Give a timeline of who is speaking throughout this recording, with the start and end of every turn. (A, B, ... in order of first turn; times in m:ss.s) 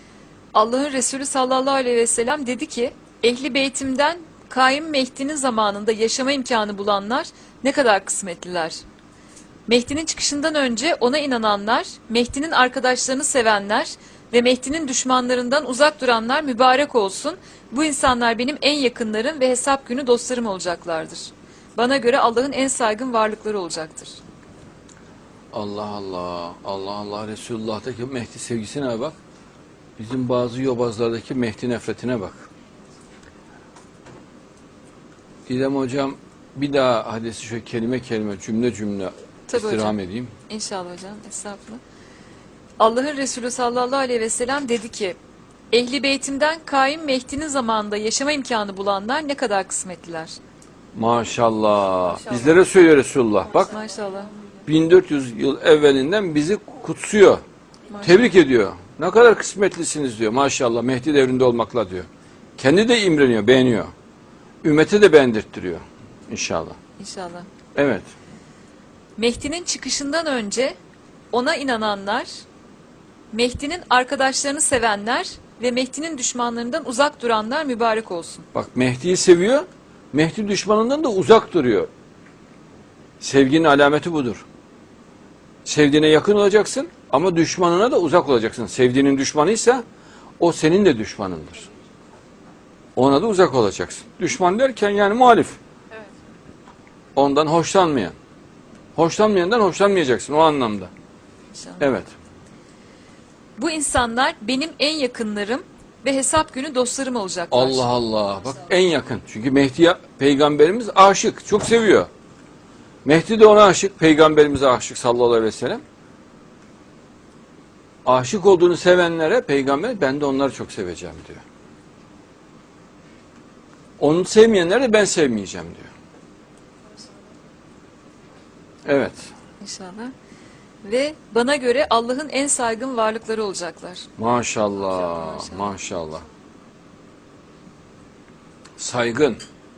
0:00.5-0:08.8 A
0:09.7-0:24.2 A
0:25.5-0:29.2 B
0:30.0-0:32.5 B
0:35.5-0:40.3 B
0:39.5-0:40.0 A
0:40.5-0:41.8 A
0:42.8-0:45.2 A
0:45.7-0:50.4 A
0:50.9-0:53.7 B
0:53.6-0:54.3 A
0:54.6-0:57.4 B
0:57.9-0:58.2 A
0:58.0-1:03.9 B
1:04.6-1:06.8 B
1:07.0-1:07.5 A
1:07.8-1:08.1 B
1:09.2-1:10.8 A
1:11.3-1:12.4 A
1:13.3-1:18.4 A
1:18.5-1:21.9 B
1:23.2-1:24.4 B
1:25.6-1:29.8 B
1:30.4-1:31.7 B
1:33.0-1:35.6 B
1:37.1-1:38.1 B
1:39.0-1:40.9 B
1:41.5-1:41.9 A
1:41.8-1:42.1 B
1:43.6-1:47.8 A
1:47.5-1:52.1 B
1:53.0-1:55.8 B
1:58.0-2:01.4 B
2:04.0-2:05.9 B
2:08.8-2:09.3 B
2:09.6-2:10.1 A
2:10.8-2:14.1 A
2:14.2-2:16.2 B
2:14.9-2:15.7 A
2:18.8-2:19.4 B